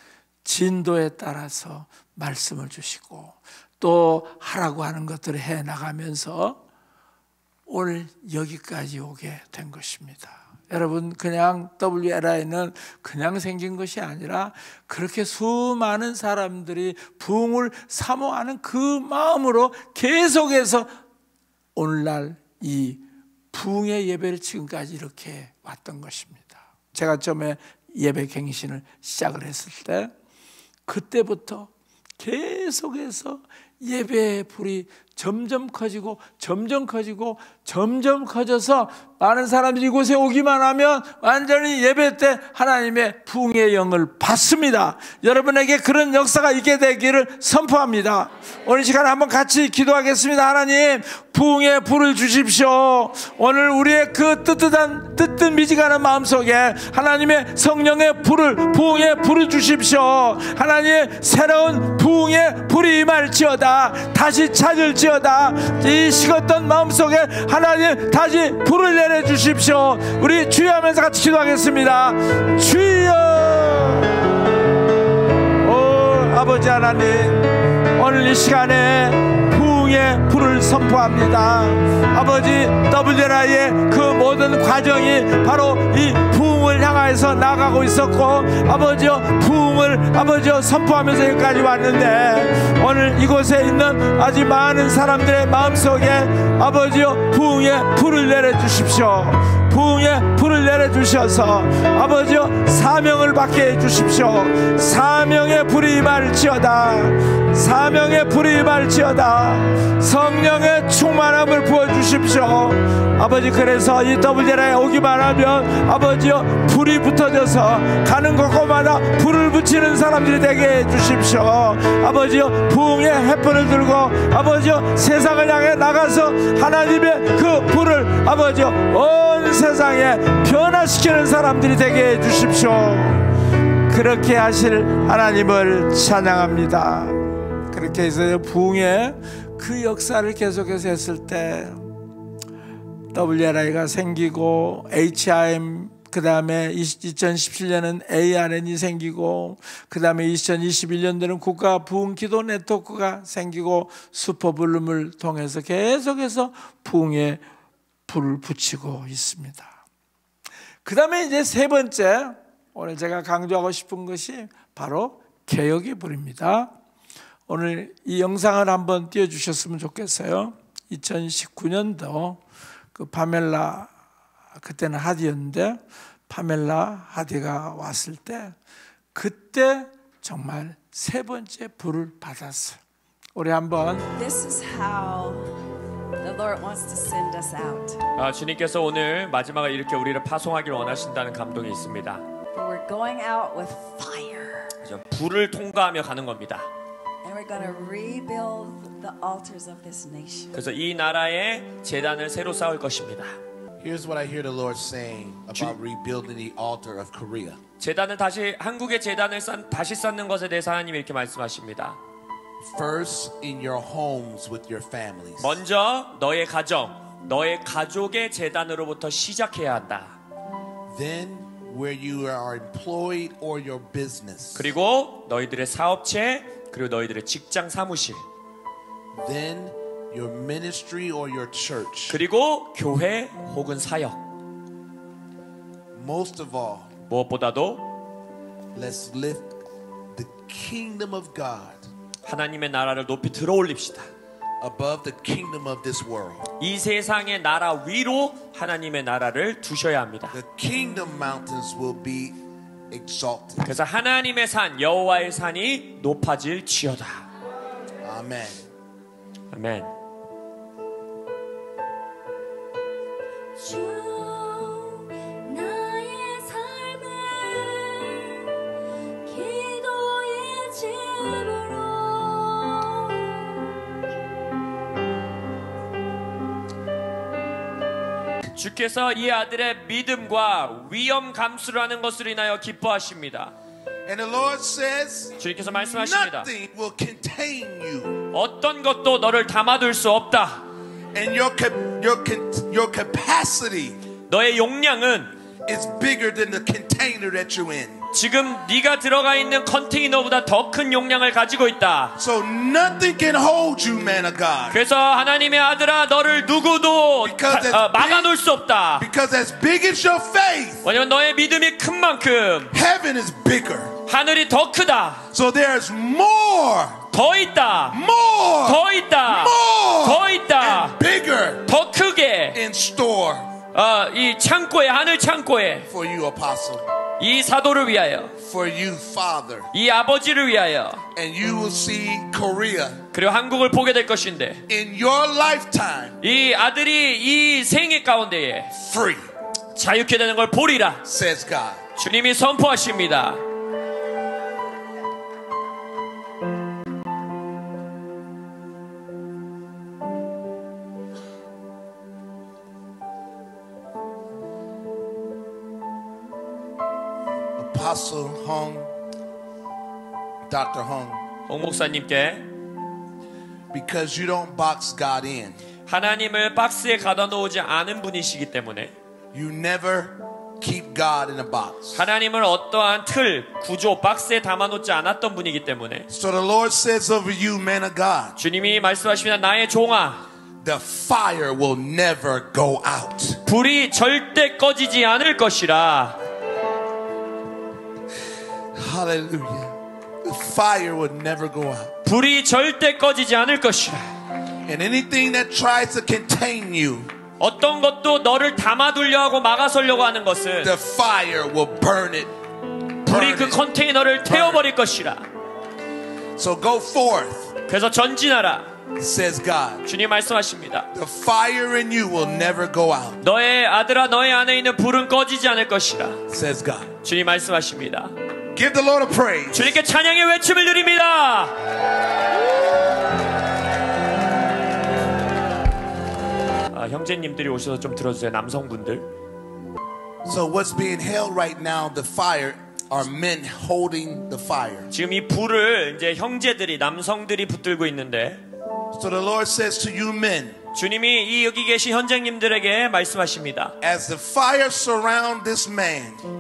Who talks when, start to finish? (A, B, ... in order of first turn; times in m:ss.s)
0:00.4-0:06.6 A
0:07.7-0:20.9 A
0:21.8-0:30.1 A
0:30.9-1:14.3 A
1:15.6-2:13.2 A
2:13.9-2:17.2 A
2:17.7-2:21.9 A
2:23.1-2:37.4 A
2:38.1-2:39.8 A
2:40.8-2:46.7 A
2:47.5-2:52.4 A
2:53.0-2:53.9 A
2:54.6-2:58.6 A
2:59.2-3:02.8 A
3:03.4-3:04.1 A
3:04.1-3:05.5 B
3:06.2-3:08.0 B
3:08.2-3:12.2 C
3:12.5-3:14.7 B
3:14.8-3:16.7 C
3:17.2-3:20.5 B
3:20.5-3:23.3 C
3:23.8-3:27.6 D
3:27.8-3:32.0 C
3:32.6-3:35.6 D
3:35.4-3:40.2 C
3:40.9-3:44.7 D
3:44.6-3:48.2 C
3:49.2-3:52.2 D
3:52.1-3:54.2 C
3:55.9-3:56.9 D
3:57.1-3:57.9 C
3:58.7-3:59.5 D
4:00.1-4:01.8 D
4:02.2-4:04.1 C
4:04.6-4:06.5 D
4:06.6-4:10.4 C
4:10.3-4:12.4 D
4:12.9-4:13.7 D
4:13.6-4:17.2 C
4:18.0-4:18.6 D
4:19.5-4:19.9 C
4:23.6-4:28.5 E
4:29.2-4:33.7 E
4:38.6-4:43.5 C
4:44.1-4:45.4 D
4:45.4-4:46.5 C
4:46.0-4:48.2 D
4:48.3-4:50.6 C
4:51.1-4:54.0 D
4:54.3-4:55.3 C
4:55.7-4:58.0 D
4:58.1-5:02.2 C
5:02.2-5:04.8 D
5:04.7-5:09.0 C
5:07.2-5:08.3 D
5:09.0-5:10.9 D
5:10.8-5:12.8 C
5:12.7-5:14.0 D
5:14.1-5:15.3 C
5:15.3-5:17.1 D
5:17.1-5:18.0 C
5:17.9-5:21.7 D
5:18.6-5:21.0 C
5:21.7-5:22.6 C
5:22.5-5:23.5 D
5:23.7-5:25.9 C
5:25.9-5:26.8 D
5:27.2-5:28.3 C
5:28.4-5:29.7 D
5:29.7-5:31.0 C
5:31.2-5:33.0 D
5:33.1-5:34.6 C
5:34.7-5:36.2 D
5:36.2-5:38.7 C
5:38.7-5:39.2 D
5:39.8-5:41.0 C
5:41.0-5:41.8 D
5:42.0-5:43.4 C
5:57.6-5:58.9 D
6:00.5-6:01.2 D
6:01.5-6:02.4 C
6:03.7-6:05.6 D
6:05.9-6:08.9 C
6:09.3-6:12.0 D
6:12.0-6:16.1 C
6:16.1-6:18.4 D
6:18.4-6:20.2 C
6:20.6-6:23.4 D
6:23.5-6:26.2 C
6:28.7-6:31.9 D
6:32.0-6:34.0 C
6:34.7-6:37.1 D
6:37.4-6:40.7 C
6:40.6-6:42.3 D
6:43.1-6:43.6 D
6:43.1-6:45.3 C
6:44.2-6:44.6 D
6:46.4-6:47.6 D
6:47.7-6:48.7 C
6:49.0-6:49.8 D
6:49.9-6:50.9 C
6:50.9-6:53.2 D
6:53.2-6:56.2 C
6:56.3-6:57.0 D
6:57.0-6:58.1 C
6:58.5-6:59.7 D
6:59.5-7:01.6 C
7:06.7-7:09.1 C
7:10.2-7:14.9 D
7:14.9-7:18.4 C
7:18.9-7:20.6 D
7:20.7-7:23.7 C
7:23.8-7:26.3 D